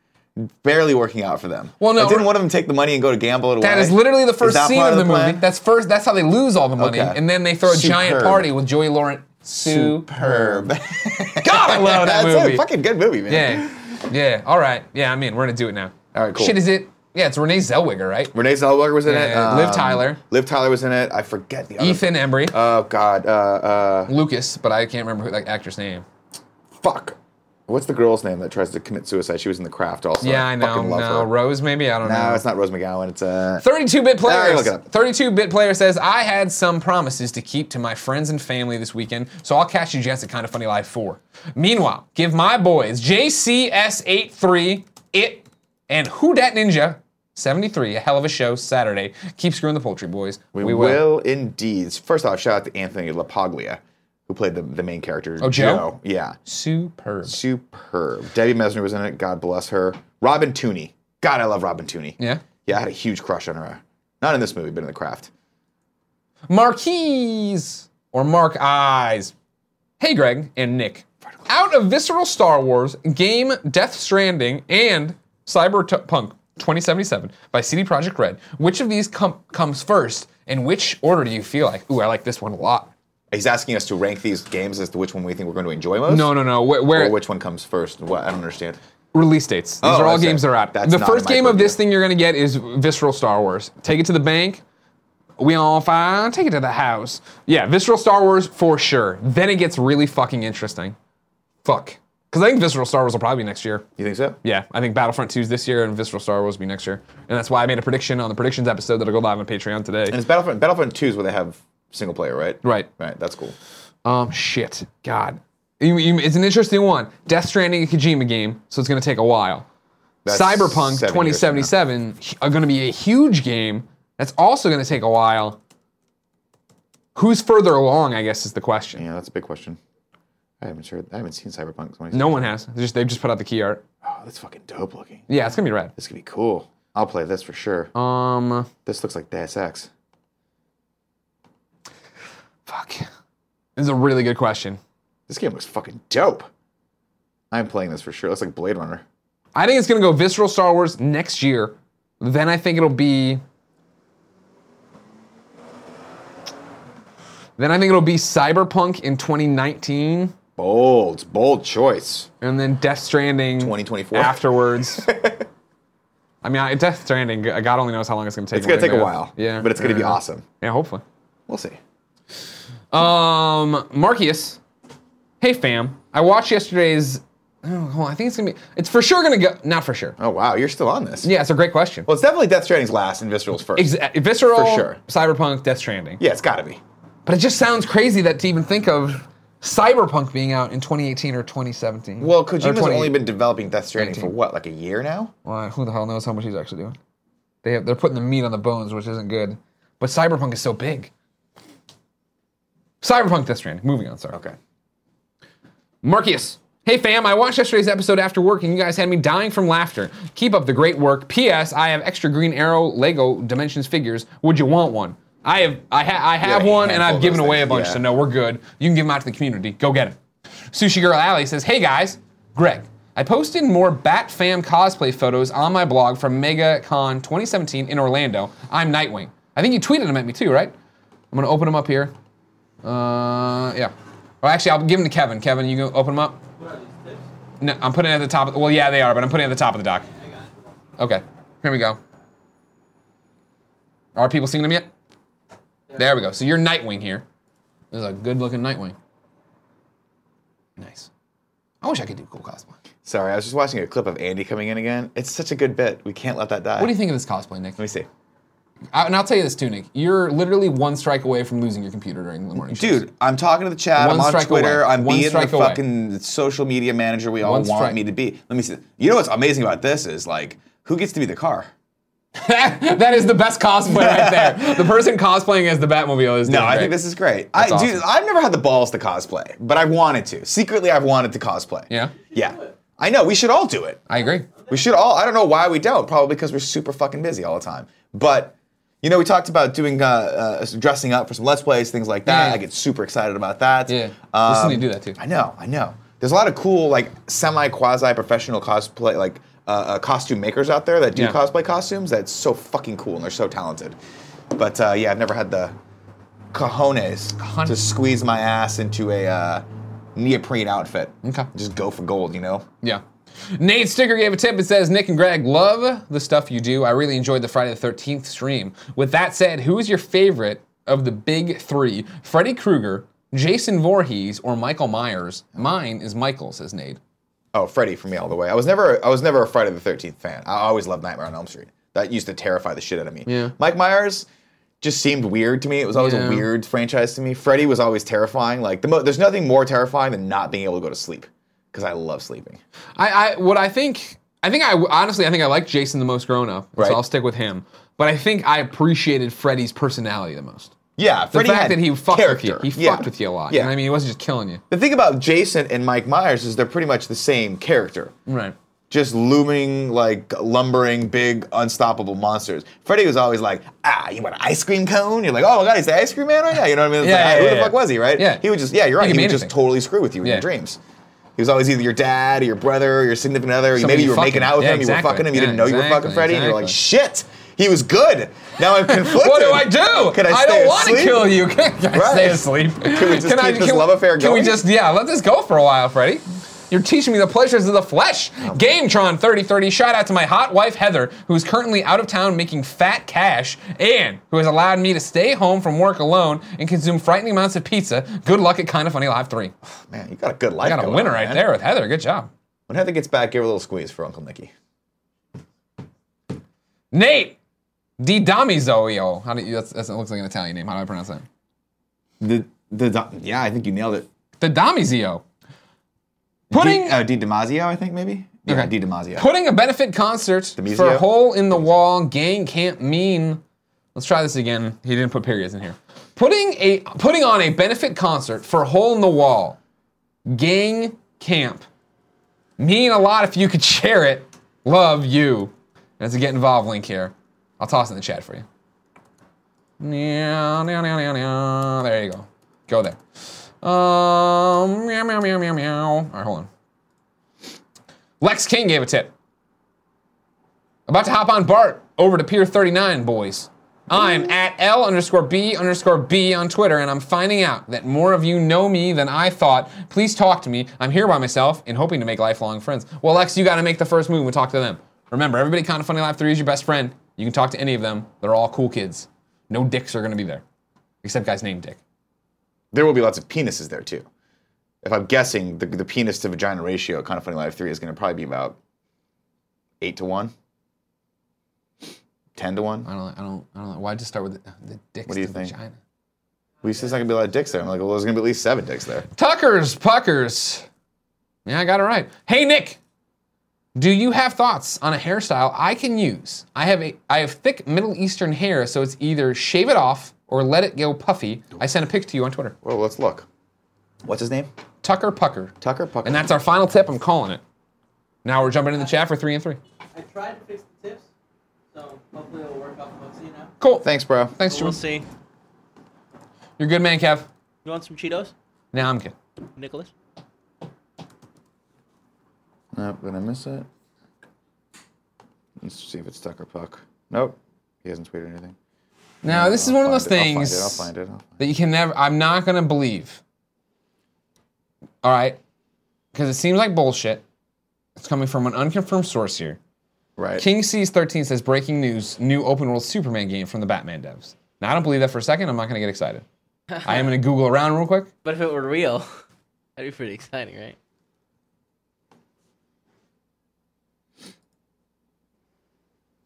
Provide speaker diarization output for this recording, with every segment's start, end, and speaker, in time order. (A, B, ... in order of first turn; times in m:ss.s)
0:00.4-0:05.4 A
0:01.8-0:02.3 B
0:03.6-0:10.7 B
0:06.8-0:08.5 A
0:09.6-0:14.0 A
0:11.3-0:12.6 B
0:13.3-0:18.3 B
0:16.1-0:16.6 A
0:18.3-0:24.1 A
0:19.0-0:20.2 B
0:21.8-0:22.6 B
0:24.1-0:26.0 B
0:26.8-0:27.2 A
0:27.7-0:31.3 A
0:30.2-0:32.4 B
0:32.0-0:34.9 A
0:33.6-0:51.0 B
0:50.5-0:56.4 A
0:55.4-0:55.9 B
0:56.4-0:57.4 B
0:57.2-1:05.3 A
1:06.5-1:09.3 B
1:10.0-1:22.9 B
1:23.3-1:28.8 A
1:26.1-1:27.2 B
1:29.1-1:34.6 B
1:29.8-1:31.8 A
1:35.4-1:41.0 B
1:41.6-1:43.8 B
1:44.0-1:44.4 A
1:44.4-1:50.2 B
1:50.1-1:53.6 A
1:54.0-1:59.6 B
2:00.2-2:01.7 A
2:00.3-2:05.6 B
2:07.1-2:09.0 B
2:09.0-2:09.8 A
2:10.6-2:12.5 A
2:12.1-2:13.8 B
2:14.0-2:15.3 A
2:15.3-2:15.9 B
2:16.0-2:17.9 A
2:17.9-2:18.7 B
2:18.8-2:19.9 A
2:22.7-2:23.1 B
2:23.8-2:24.8 B
2:25.3-2:26.5 A
2:27.5-2:29.0 A
2:29.5-2:33.4 B
2:37.6-2:40.3 B
2:40.6-2:42.3 A
2:42.4-2:45.1 B
2:43.6-2:44.4 A
2:45.0-2:45.5 A
2:46.4-2:51.0 B
2:48.5-2:50.4 A
2:51.5-2:51.8 A
2:52.9-2:54.6 B
2:55.4-3:00.2 B
3:00.2-3:01.3 A
3:01.2-3:02.1 B
3:02.0-3:05.0 A
3:03.7-3:06.2 B
3:06.2-3:06.8 A
3:07.2-3:13.2 B
3:12.2-3:15.3 A
3:14.0-3:14.3 B
3:15.4-3:17.0 B
3:17.6-3:21.1 B
3:23.0-3:24.4 B
3:24.3-3:24.6 A
3:26.0-3:40.2 B
3:36.4-3:38.0 A
3:40.7-3:50.7 B
3:51.3-3:52.1 B
3:52.8-3:56.4 B
3:56.6-3:57.2 C
3:57.6-4:00.1 B
4:01.0-4:02.0 B
4:04.2-4:04.9 B
4:05.9-4:07.2 B
4:07.9-4:09.0 B
4:10.8-4:11.1 B
4:11.8-4:12.7 B
4:13.0-4:17.0 A
4:16.8-4:17.8 B
4:17.8-4:18.1 A
4:18.9-4:23.1 B
4:22.6-4:31.7 A
4:24.0-4:25.8 B
4:27.4-4:28.0 B
4:32.4-4:37.0 B
4:33.9-4:35.0 A
4:36.4-4:44.0 A
4:37.5-4:38.0 B
4:41.9-4:42.1 B
4:42.3-4:42.7 C
4:44.1-4:44.5 B
4:44.7-5:04.0 A
4:52.2-4:52.6 B
4:53.9-4:55.2 B
5:04.5-5:05.7 A
5:06.5-5:12.7 A
5:07.4-5:07.8 B
5:11.2-5:11.5 B
5:13.6-5:27.0 B
5:27.5-5:34.3 A
5:33.2-5:33.5 B
5:34.8-5:42.6 A
5:35.9-5:36.5 B
5:43.0-5:50.7 B
5:46.8-5:47.0 A
5:51.0-5:53.8 A
5:51.3-5:54.6 B
5:54.7-5:58.1 A
5:58.3-5:58.6 B
5:58.9-6:10.8 A
6:07.0-6:08.4 B
6:09.0-6:09.5 B
6:11.4-6:24.6 A
6:13.8-6:16.8 B
6:18.8-6:39.5 B
6:39.6-6:41.5 A
6:40.6-6:42.3 B
6:42.7-6:44.5 A
6:46.9-6:47.4 B
6:48.0-6:51.2 B
6:52.2-6:54.1 A
6:54.4-6:55.2 B
6:56.5-6:59.3 A
6:56.5-6:57.0 B
6:58.5-7:03.4 B
7:00.6-7:01.1 A
7:03.9-7:09.6 B
7:10.2-7:11.6 B
7:12.6-7:18.4 B
7:19.8-7:23.0 B
7:23.6-7:26.5 B
7:28.2-7:29.1 B
7:30.9-7:50.4 B
7:51.0-7:51.8 B
7:52.7-7:54.0 A
7:54.8-7:58.6 A
7:59.8-8:00.3 A
8:02.4-8:02.9 A
8:02.8-8:05.8 B
8:05.1-8:05.5 A
8:06.6-8:09.1 A
8:09.2-8:10.6 B
8:11.4-8:12.8 B
8:13.7-8:22.5 B
8:22.6-8:23.3 A
8:24.0-8:24.5 A
8:24.8-8:27.4 B
8:25.6-8:26.3 A
8:28.2-8:29.6 B
8:29.9-8:31.0 C
8:31.7-8:33.5 C
8:33.6-8:34.8 B
8:33.8-8:34.3 A
8:34.4-8:35.0 C
8:36.6-8:37.3 B
8:37.6-8:38.3 C
8:38.7-8:39.1 B
8:39.6-8:39.9 C
8:42.7-8:43.7 A
8:45.6-8:48.5 A
8:49.2-8:53.2 B
8:49.2-8:51.4 A
8:55.0-8:55.4 B
8:56.1-8:57.2 B
8:58.0-8:59.6 B
9:00.2-9:00.4 A
9:00.4-9:06.2 B
9:06.7-9:07.1 C
9:06.8-9:08.1 B
9:08.2-9:09.1 C
9:09.8-9:10.8 C